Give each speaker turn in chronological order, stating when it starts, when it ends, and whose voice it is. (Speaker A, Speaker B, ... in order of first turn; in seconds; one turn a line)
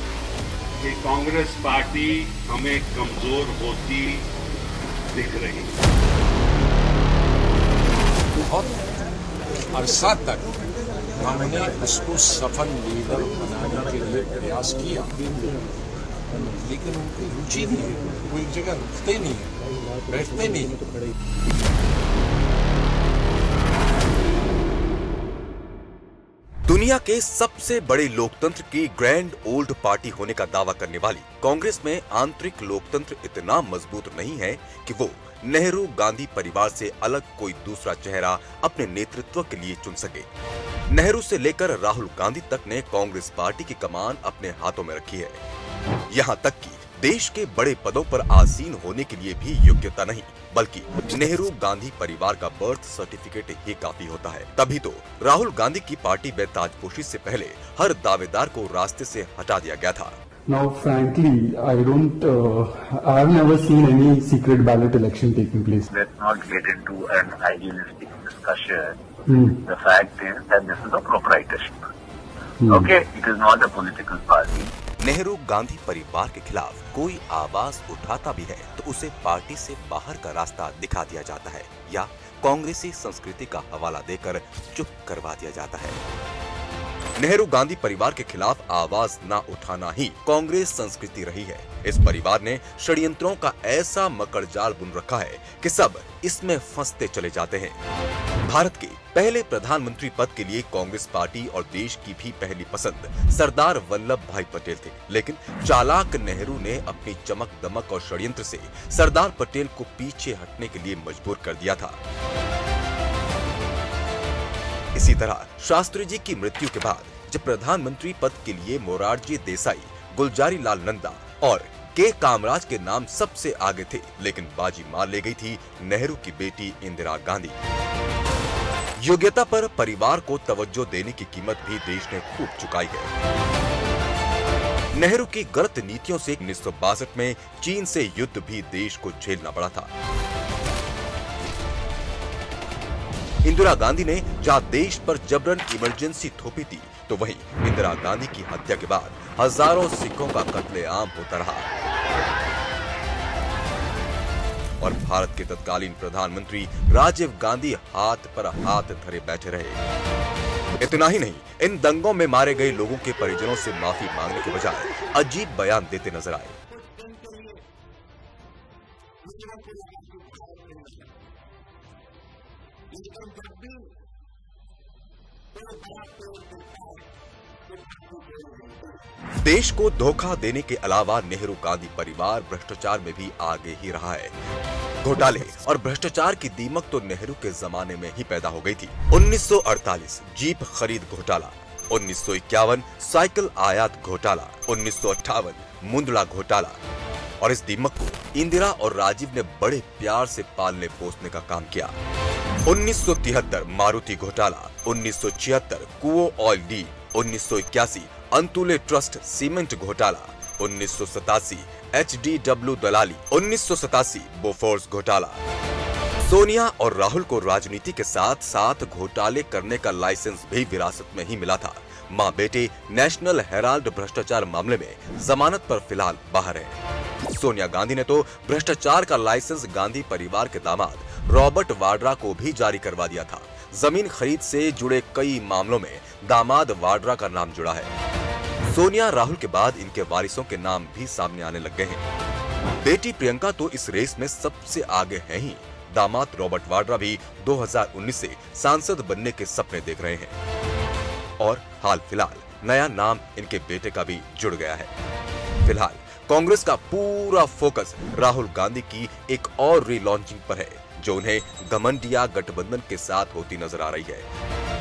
Speaker A: 0.8-4.2
Speaker A: 5.1-5.7
Speaker B: 8.3-8.8
Speaker B: 9.7-10.6
Speaker B: 11.1-15.3
Speaker B: 16.5-19.6
Speaker B: 20.1-20.8
Speaker C: 26.7-40.3
Speaker C: 40.9-45.4
Speaker C: 46.1-60.1
Speaker D: 60.5-65.9
Speaker E: 65.9-69.0
Speaker D: 69.3-69.6
Speaker E: 69.6-71.9
Speaker D: 72.6-72.9
Speaker E: 72.7-74.7
Speaker C: 75.0-86.0
Speaker C: 87.2-97.8
Speaker C: 98.4-112.0
Speaker C: 114.9-127.6
Speaker C: 129.0-133.1
Speaker C: 134.9-139.9
Speaker C: 143.4-151.7
Speaker C: 154.8-159.8
Speaker C: 160.8-166.6
Speaker C: 179.4-184.3
Speaker C: 185.0-196.8
Speaker C: 197.4-201.9
Speaker C: 202.6-215.4
Speaker C: 216.2-237.9
Speaker C: 238.7-242.0
Speaker C: 242.8-250.3
Speaker C: 251.4-254.9
Speaker C: 255.6-264.3